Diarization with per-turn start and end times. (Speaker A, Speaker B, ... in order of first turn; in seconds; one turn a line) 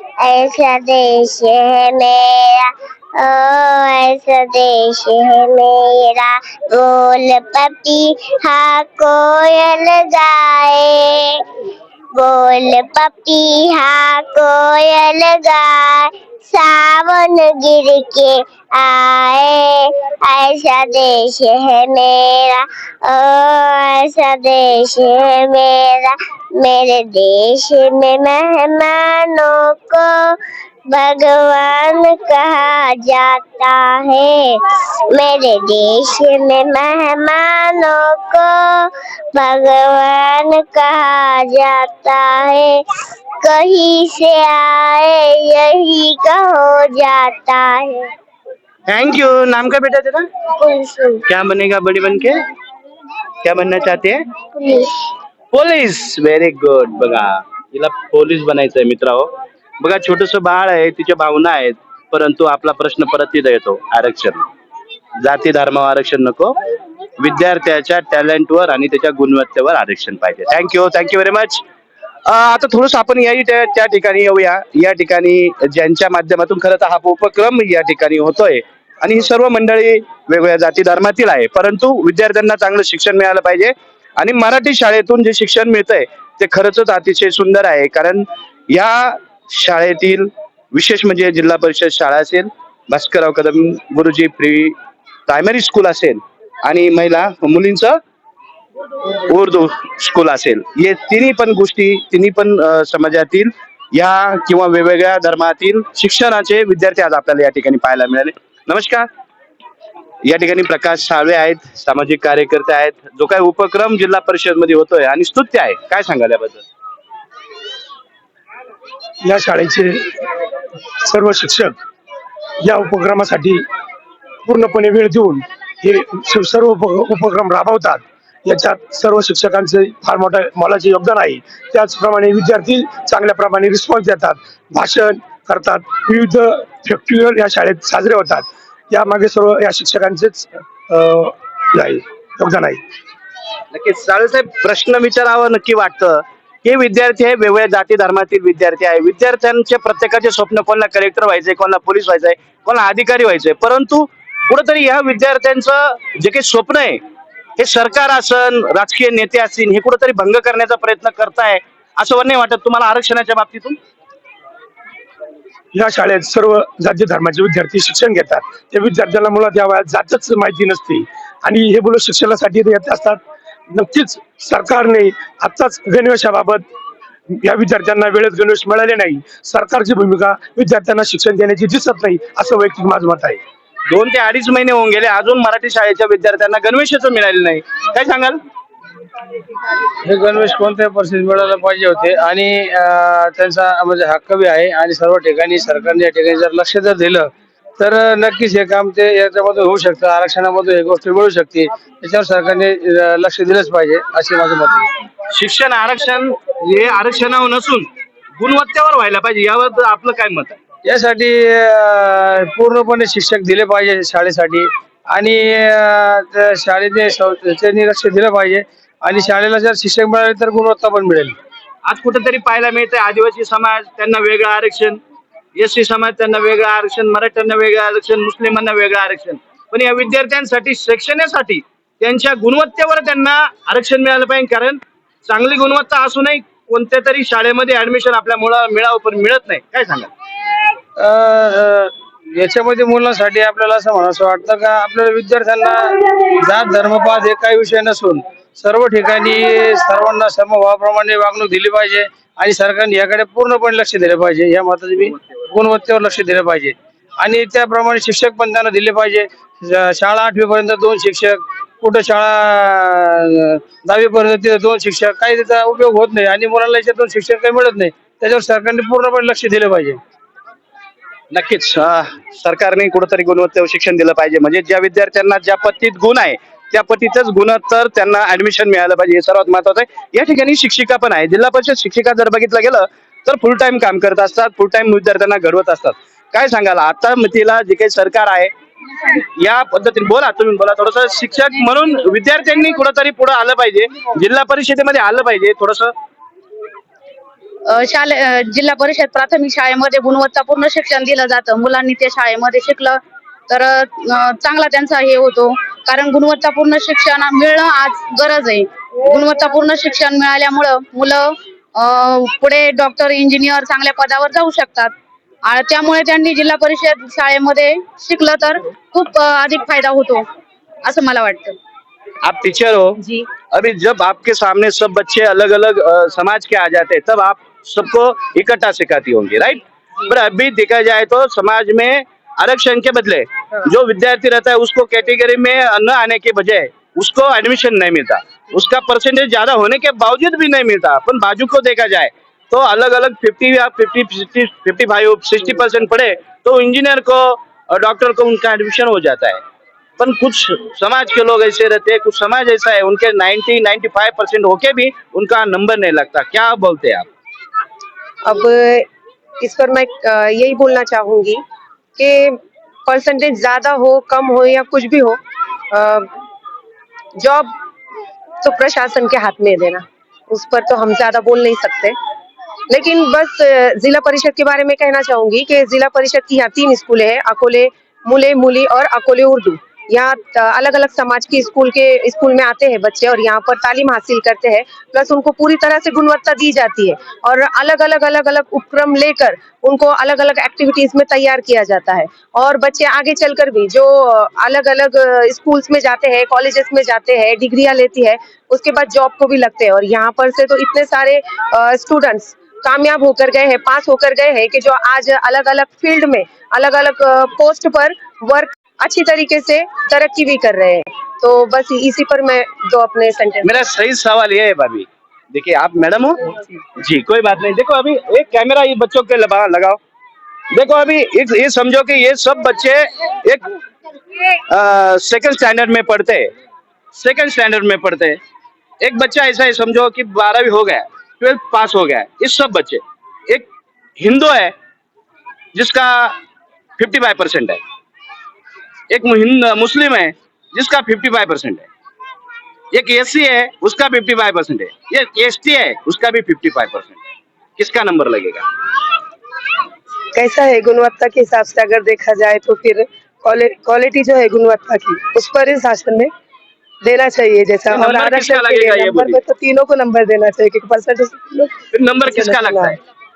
Speaker A: 0.2-11.4
Speaker A: 12.1-30.4
Speaker A: 30.9-34.6
Speaker A: 35.1-42.8
Speaker A: 43.4-48.1
Speaker B: 48.9-50.2
Speaker A: 50.6-51.2
Speaker B: 51.3-52.3
Speaker B: 53.4-54.0
Speaker A: 54.5-54.9
Speaker B: 55.5-59.2
Speaker B: 59.8-64.5
Speaker B: 65.2-66.5
Speaker B: 67.2-71.6
Speaker B: 72.2-94.7
Speaker B: 95.3-97.9
Speaker B: 99.3-109.1
Speaker B: 110.2-116.6
Speaker C: 119.2-120.0
Speaker C: 121.1-121.7
Speaker C: 122.6-123.6
Speaker C: 124.5-142.8
Speaker B: 143.7-157.0
Speaker B: 157.6-163.8
Speaker C: 165.7-173.2
Speaker C: 173.7-176.6
Speaker C: 177.4-183.4
Speaker B: 183.9-188.3
Speaker D: 190.0-204.9
Speaker B: 205.3-207.8
Speaker B: 208.4-210.6
Speaker D: 210.8-221.3
Speaker B: 221.8-224.9
Speaker B: 225.6-240.1
Speaker D: 241.0-270.0
Speaker B: 271.3-288.5
Speaker B: 289.1-295.9
Speaker E: 297.7-314.9
Speaker E: 315.4-320.2
Speaker E: 320.8-321.6
Speaker B: 322.2-322.9
Speaker E: 323.0-323.2
Speaker B: 323.5-349.4
Speaker B: 350.0-357.0
Speaker F: 358.2-358.9
Speaker F: 359.4-361.4
Speaker F: 362.0-365.2
Speaker F: 365.7-366.1
Speaker F: 367.2-367.5
Speaker F: 368.4-371.9
Speaker F: 372.7-413.5
Speaker B: 413.4-416.1
Speaker B: 416.8-419.8
Speaker B: 420.5-423.5
Speaker B: 424.5-426.3
Speaker B: 426.9-428.2
Speaker B: 428.8-433.4
Speaker B: 434.0-434.5
Speaker B: 435.5-436.1
Speaker B: 436.8-437.6
Speaker B: 438.9-441.6
Speaker B: 442.7-447.0
Speaker B: 447.6-448.4
Speaker F: 450.1-456.1
Speaker F: 456.8-461.5
Speaker B: 457.7-459.2
Speaker B: 461.7-462.7
Speaker F: 462.0-462.8